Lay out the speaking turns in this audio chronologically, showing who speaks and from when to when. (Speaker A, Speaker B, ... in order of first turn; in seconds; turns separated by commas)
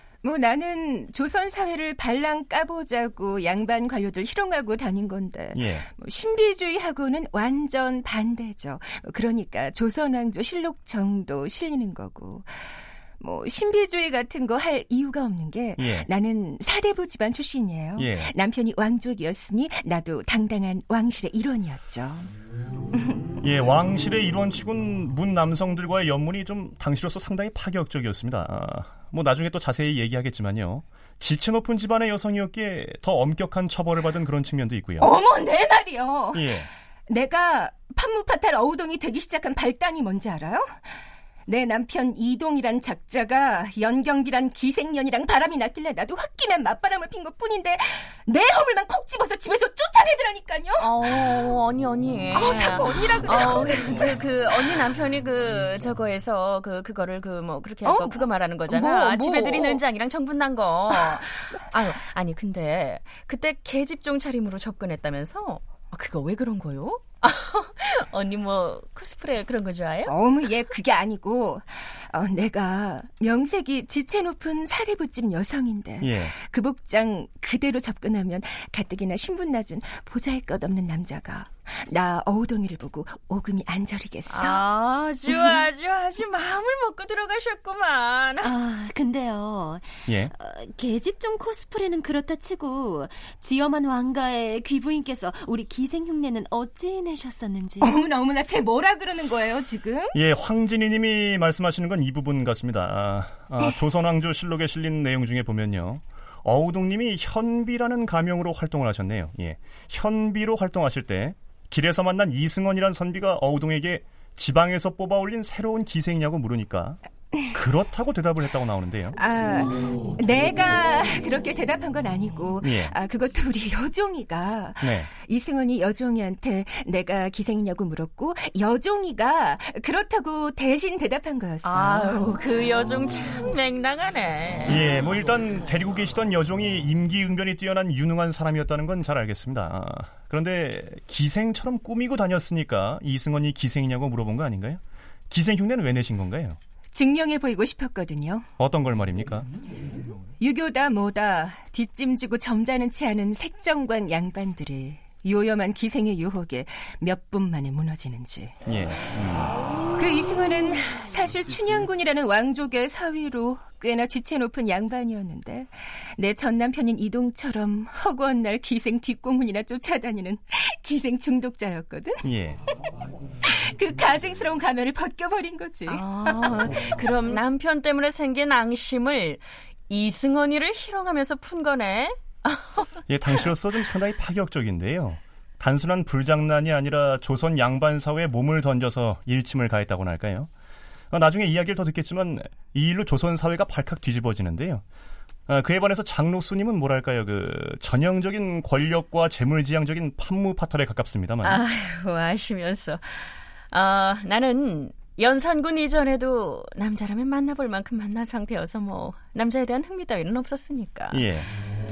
Speaker A: 0.2-22.3, Speaker B: 5.5-5.9, Speaker B: 15.8-16.1, Speaker B: 17.9-18.3, Speaker A: 22.9-23.2, Speaker B: 23.4-35.1, Speaker A: 35.0-51.2, Speaker B: 36.3-36.7, Speaker C: 50.8-70.1, Speaker A: 52.3-54.1, Speaker A: 57.8-59.8, Speaker A: 60.9-61.5, Speaker A: 70.0-84.6, Speaker B: 76.0-76.3, Speaker C: 84.3-88.5, Speaker D: 88.4-97.9, Speaker B: 90.1-90.3, Speaker A: 97.8-100.2, Speaker B: 100.1-119.2, Speaker A: 119.1-132.2, Speaker B: 122.6-122.9, Speaker B: 124.8-125.1, Speaker C: 131.6-134.9, Speaker B: 134.7-146.6, Speaker A: 146.9-148.5, Speaker B: 148.6-149.5, Speaker A: 150.4-158.6, Speaker B: 158.7-159.6, Speaker A: 159.9-172.3, Speaker B: 172.2-172.6, Speaker A: 173.4-176.6, Speaker C: 175.9-182.9, Speaker B: 183.1-190.5, Speaker B: 191.1-194.8, Speaker B: 195.5-201.6, Speaker C: 201.4-211.3, Speaker B: 211.1-211.5